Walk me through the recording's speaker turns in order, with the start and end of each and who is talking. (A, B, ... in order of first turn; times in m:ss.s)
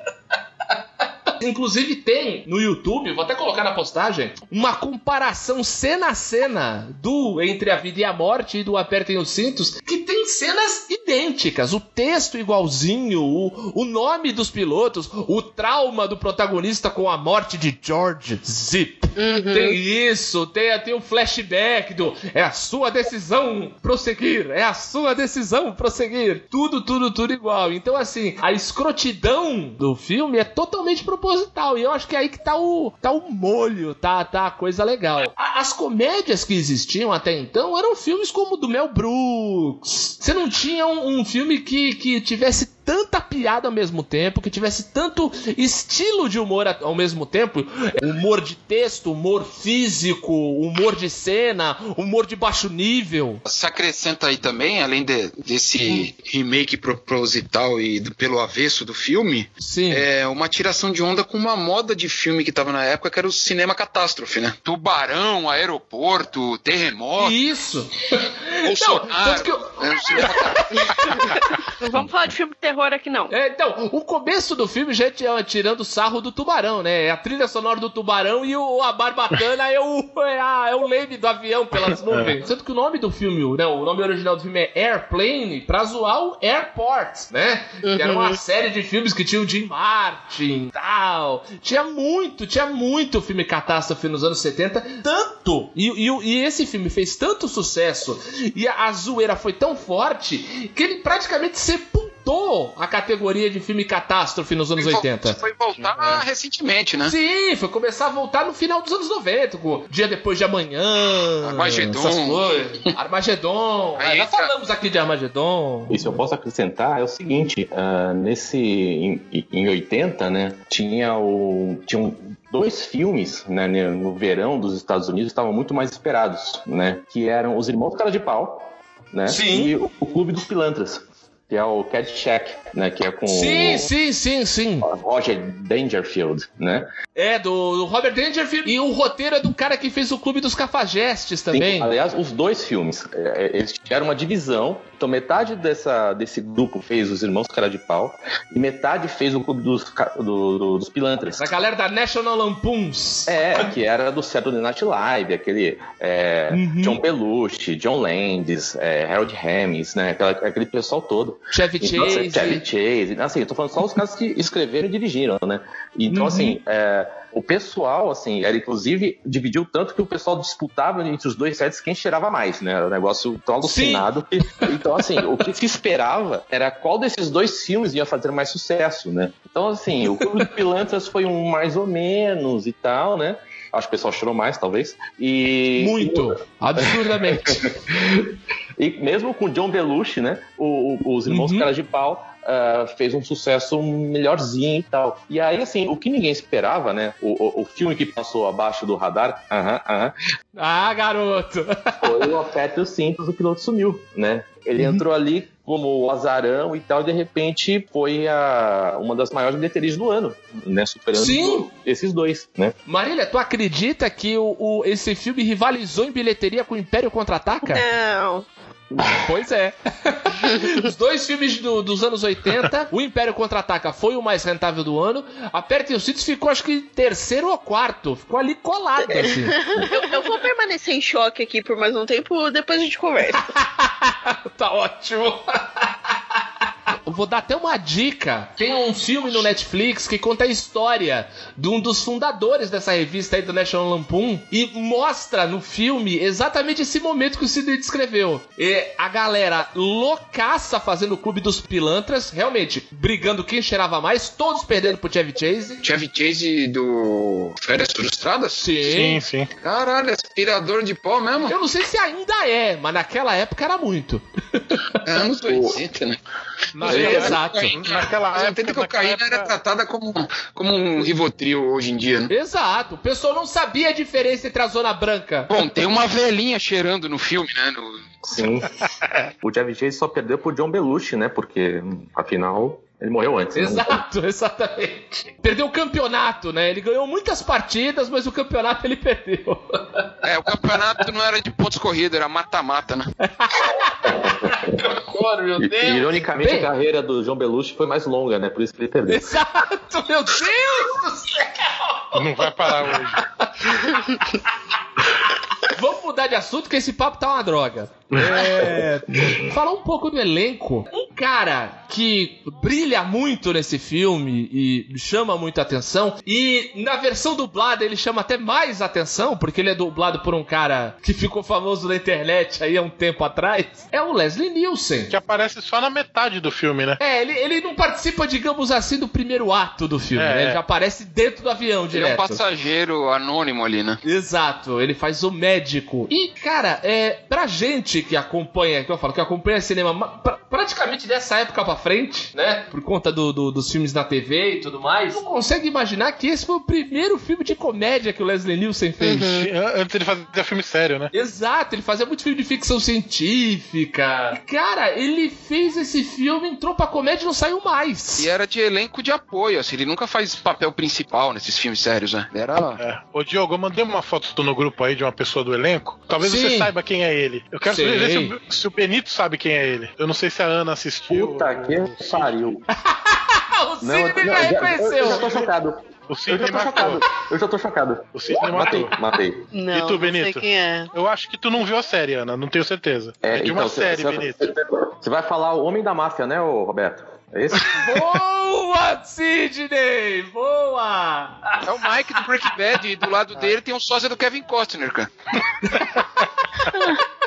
0:01.4-0:53.4 A
0:19.2-0:19.8 B
0:53.5-1:07.4 C
0:59.6-1:00.0 A
1:07.2-1:10.4 A
1:08.6-1:11.4 C
1:11.8-1:13.3 D
1:13.3-1:45.4 A
1:21.9-1:22.3 E
1:27.8-1:28.4 B
1:44.8-1:47.1 C
1:45.8-1:46.2 E
1:47.1-1:56.0 A
1:51.4-1:52.5 C
1:54.0-1:54.5 C
1:55.9-2:13.9 F
2:09.3-2:09.8 A
2:13.3-2:14.9 A
2:14.8-2:16.9 F
2:17.2-2:21.9 A
2:21.5-2:31.5 F
2:31.4-2:33.3 A
2:33.3-3:20.1 F
2:36.5-2:37.0 A
2:41.5-2:42.6 A
2:46.1-2:46.6 A
2:53.6-2:54.1 A
3:05.8-3:07.8 A
3:11.3-3:11.7 A
3:20.5-3:22.3 A
3:22.0-3:32.8 F
3:24.8-3:25.0 A
3:31.1-3:31.7 A
3:32.9-3:37.9 A
3:37.6-3:38.5 D
3:39.1-3:49.6 A
3:49.6-3:50.1 B
3:49.9-3:53.5 D
3:53.5-3:56.4 A
3:57.0-4:15.8 A
4:15.8-4:18.7 C
4:18.6-4:19.2 A
4:18.8-4:19.5 E
4:19.6-4:21.5 C
4:21.5-4:25.0 A
4:25.0-4:26.2 C
4:25.5-4:25.8 F
4:26.7-4:29.5 E
4:26.8-4:32.3 C
4:26.8-4:27.8 A
4:26.9-4:27.2 F
4:32.3-4:35.5 A
4:35.5-4:38.0 C
4:38.2-4:38.7 F
4:38.6-4:39.1 E
4:39.4-4:44.0 F
4:43.5-4:50.1 A
4:50.2-4:53.1 C
4:53.2-4:56.7 A
4:54.0-4:54.8 F
4:55.6-4:59.4 F
4:59.1-5:04.0 A
5:02.1-5:03.2 E
5:03.8-5:04.2 B
5:05.1-5:25.1 A
5:08.4-5:09.3 F
5:25.1-5:27.0 E
5:27.0-5:32.4 A
5:30.1-5:30.6 E
5:31.9-5:34.0 C
5:34.0-5:49.3 A
5:49.0-5:49.5 B
5:49.2-5:51.1 E
5:51.1-5:58.3 A
5:58.2-6:02.8 C
6:02.8-6:12.4 E
6:06.2-6:06.7 A
6:07.7-6:08.4 A
6:11.1-6:12.7 F
6:12.8-6:15.4 A
6:13.8-6:19.4 F
6:16.1-6:17.1 E
6:18.1-6:18.9 E
6:19.5-6:20.9 B
6:19.7-6:24.5 E
6:23.2-6:27.8 F
6:27.7-6:31.6 A
6:31.6-6:35.1 C
6:35.6-6:36.0 A
6:36.7-6:37.0 B